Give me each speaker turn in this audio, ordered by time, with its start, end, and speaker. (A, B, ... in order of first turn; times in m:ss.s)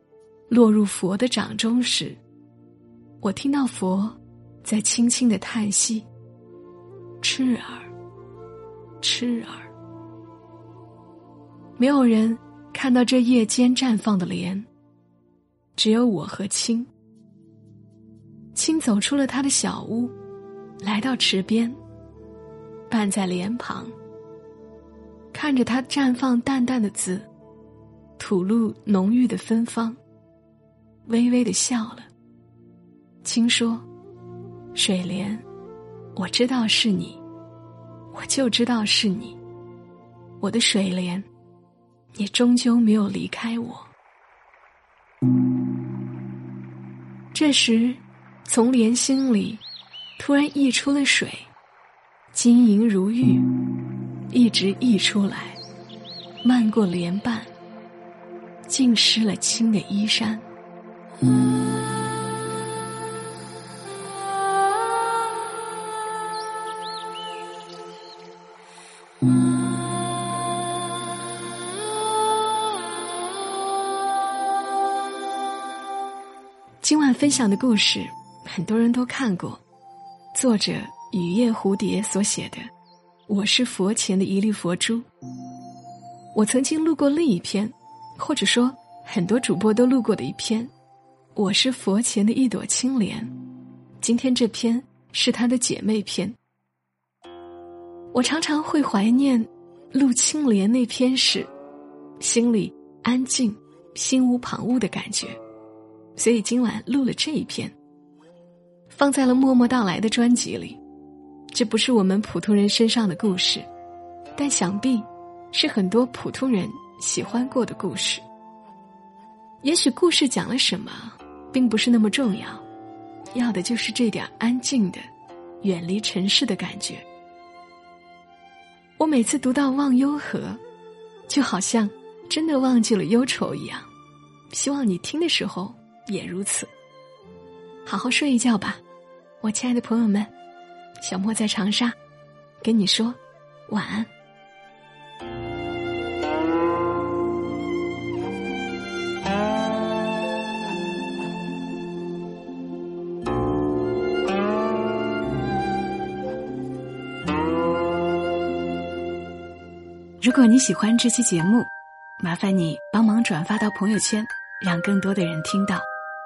0:00.5-0:02.2 A
0:03.2-0:06.1 A
0:07.2-0:07.9 A
0:09.0-0:09.7 A
0:11.8-0:14.7 A
0:15.8-0:16.9 A
0:18.5-0:20.1 A
0:20.8-0:21.8 A
0:22.9-0:24.0 A
0:25.3-0:27.3 A
0:28.2-0:30.0 A
0:31.0-0:32.1 A
0:33.2-0:33.9 A
0:34.7-0:35.4 A
0:36.1-0:37.2 A
0:38.1-0:39.4 A
0:40.4-0:41.3 A
0:42.1-0:43.9 A
0:47.3-0:49.6 A
0:50.2-0:51.5 A
0:52.3-0:53.5 A
0:54.3-0:55.6 A
0:56.4-0:57.5 A
0:58.7-1:00.5 A
1:16.8-1:19.6 A
1:20.3-1:22.7 A
1:23.3-1:25.1 A
1:26.3-1:30.7 A
1:31.4-1:33.3 A
1:34.0-1:36.4 A
1:38.1-1:41.5 A
1:42.2-1:45.4 A
1:46.2-1:47.8 A
1:48.9-1:50.8 A
1:51.5-1:53.7 A
1:54.4-1:58.2 A
1:59.6-2:02.6 A
2:03.3-2:05.1 A
2:05.6-2:07.1 A
2:09.0-2:10.6 A
2:11.3-2:13.9 A
2:14.5-2:16.7 A
2:17.8-2:18.8 A
2:19.4-2:20.3 A
2:21.0-2:22.0 A
2:22.6-2:24.1 A
2:40.2-2:45.9 A